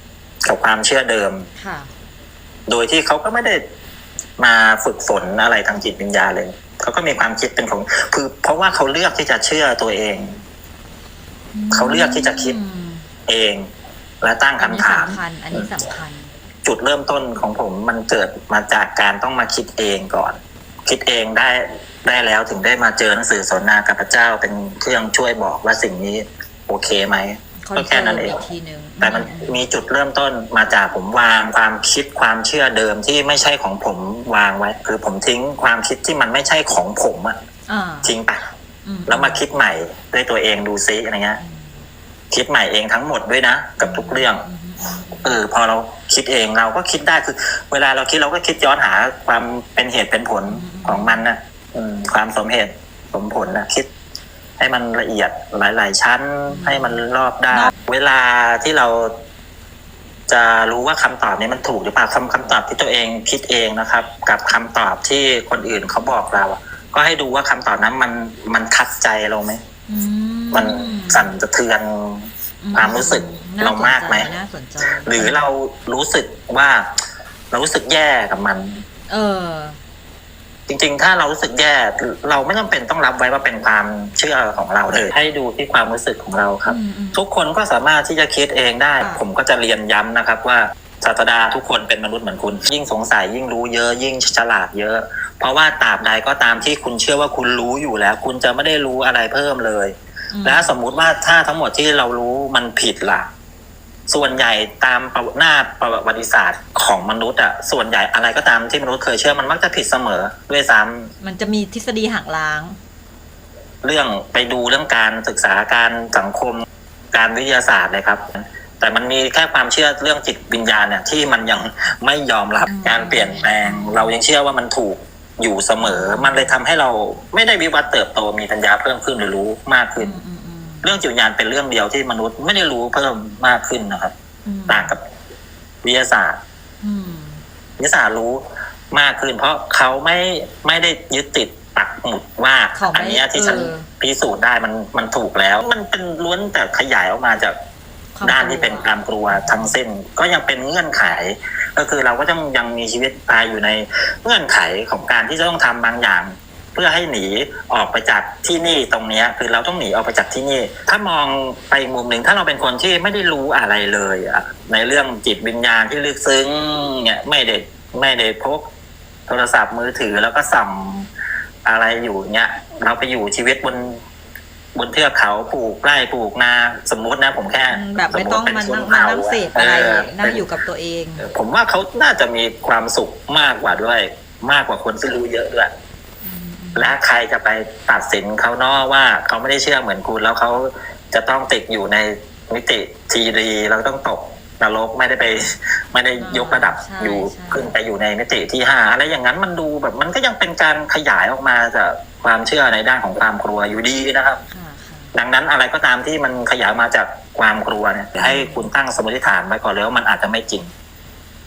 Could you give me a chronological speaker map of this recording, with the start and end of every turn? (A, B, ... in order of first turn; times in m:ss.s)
0:00.4-0:01.5 A
0:01.6-0:01.9 B
0:02.7-0:03.6 A
0:04.4-0:10.4 A
0:11.5-0:13.1 B
0:11.7-0:12.6 A
0:13.3-0:13.7 A
0:14.2-0:15.7 A
0:14.6-0:16.3 B
0:16.6-0:28.4 A
0:27.6-0:29.6 B
0:29.0-0:37.4 A
0:37.7-0:38.2 B
0:38.0-0:38.4 A
0:38.8-0:39.4 B
0:39.1-0:41.4 A
0:41.4-0:41.9 B
0:42.3-0:44.4 A
0:43.8-0:45.4 B
0:45.2-0:53.9 A
0:50.5-0:51.2 B
0:54.6-0:59.2 A
0:56.5-0:57.7 B
1:00.3-1:09.6 A
1:09.9-1:11.3 B
1:10.5-1:14.3 A
1:12.6-1:15.4 B
1:14.9-1:16.9 A
1:17.5-1:18.8 A
1:19.1-1:19.8 B
1:20.7-1:43.3 A
1:26.6-1:27.2 B
1:40.3-1:40.7 B
1:44.1-1:51.1 A
1:51.2-1:52.8 B
1:53.8-2:10.1 A
2:02.7-2:04.2 B
2:05.8-2:06.6 B
2:10.0-2:10.9 B
2:10.8-2:14.1 A
2:14.4-2:14.9 B
2:14.7-2:15.0 A
2:15.8-2:16.4 A
2:16.8-2:17.4 B
2:17.8-2:27.6 A
2:22.7-2:23.9 B
2:28.2-2:29.8 B
2:28.2-2:48.7 A
2:49.3-2:51.1 A
2:51.6-2:54.0 A
2:54.8-3:00.4 A
2:57.7-3:01.2 B
3:01.2-3:05.7 A
3:06.2-3:07.0 B
3:06.8-3:24.4 A
3:16.2-3:17.8 B
3:24.5-3:25.1 B
3:25.1-3:30.7 A
3:28.2-3:28.7 B